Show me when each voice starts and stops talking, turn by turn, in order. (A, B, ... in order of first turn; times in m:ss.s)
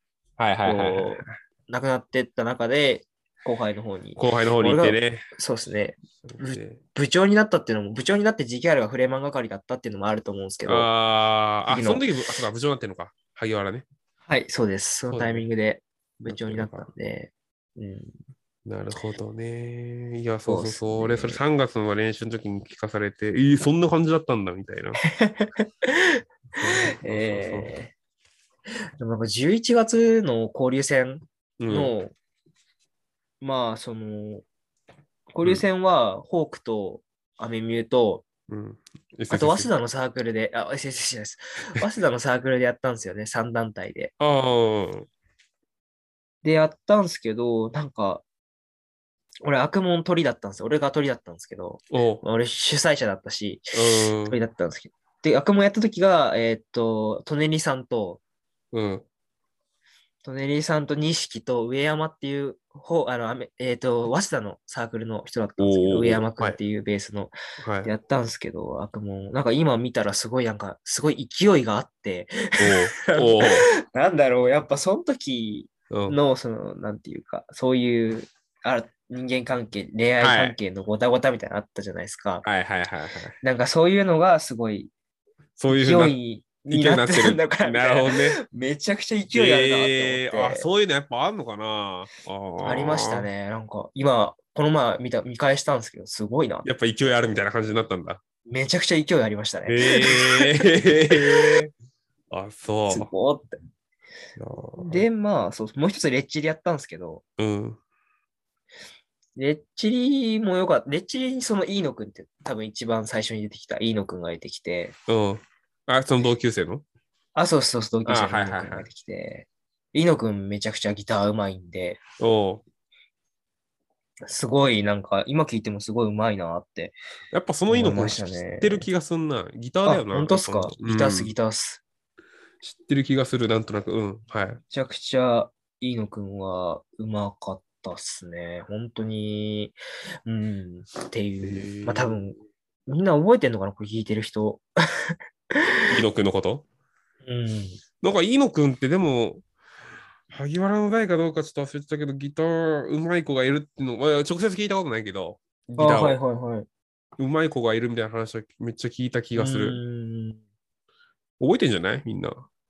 0:00.4-0:01.3 A
0:00.6-0:10.9 B
0:04.2-0:05.2 A
0:06.2-0:06.8 A
0:10.7-0:13.8 A
0:11.7-0:12.0 B
0:14.3-0:18.2 B
0:15.1-0:15.4 A
0:16.2-0:16.9 A
0:18.6-0:25.0 A
0:20.5-0:21.4 B
0:25.0-0:26.0 B
0:26.6-0:27.8 A
0:27.0-0:27.9 B
0:29.0-0:32.1 B
0:31.6-0:31.9 A
0:33.4-0:34.4 B
0:35.3-0:38.2 B
0:38.5-0:39.7 A
0:39.3-0:44.1 B
0:44.2-0:45.1 A
0:46.4-0:48.2 B
0:49.4-0:53.6 B
0:51.9-0:52.2 A
0:53.7-0:54.4 A
0:54.3-0:58.2 B
0:58.7-0:59.0 A
1:00.2-1:22.5 B
1:05.6-1:06.6 A
1:07.6-1:07.9 A
1:12.6-1:13.7 A
1:15.9-1:16.2 A
1:20.2-1:20.6 A
1:22.4-1:23.4 A
1:23.4-1:24.9 B
1:25.6-1:28.4 A
1:25.7-1:30.7 B
1:29.3-1:33.3 A
1:32.6-1:36.7 B
1:36.6-1:38.2 A
1:38.5-1:41.5 B
1:39.7-1:41.7 A
1:42.3-1:43.1 A
1:42.9-1:43.6 B
1:44.4-1:45.1 A
1:44.8-1:47.2 B
1:47.4-1:47.8 A
1:49.4-1:55.0 B
1:55.1-1:56.8 A
1:57.4-2:02.0 B
1:58.1-1:58.9 A
2:02.2-2:02.6 A
2:04.3-2:07.0 B
2:07.3-2:11.3 A
2:07.7-2:08.9 B
2:09.8-2:11.8 B
2:12.6-2:14.6 A
2:14.7-2:19.8 B
2:20.3-2:25.8 B
2:21.4-2:22.2 A
2:25.9-2:26.6 A
2:27.2-2:27.8 B
2:28.0-2:29.4 A
2:30.3-2:36.2 A
2:35.8-2:36.7 B
2:37.2-2:39.8 A
2:39.4-2:40.4 B
2:41.4-2:42.5 A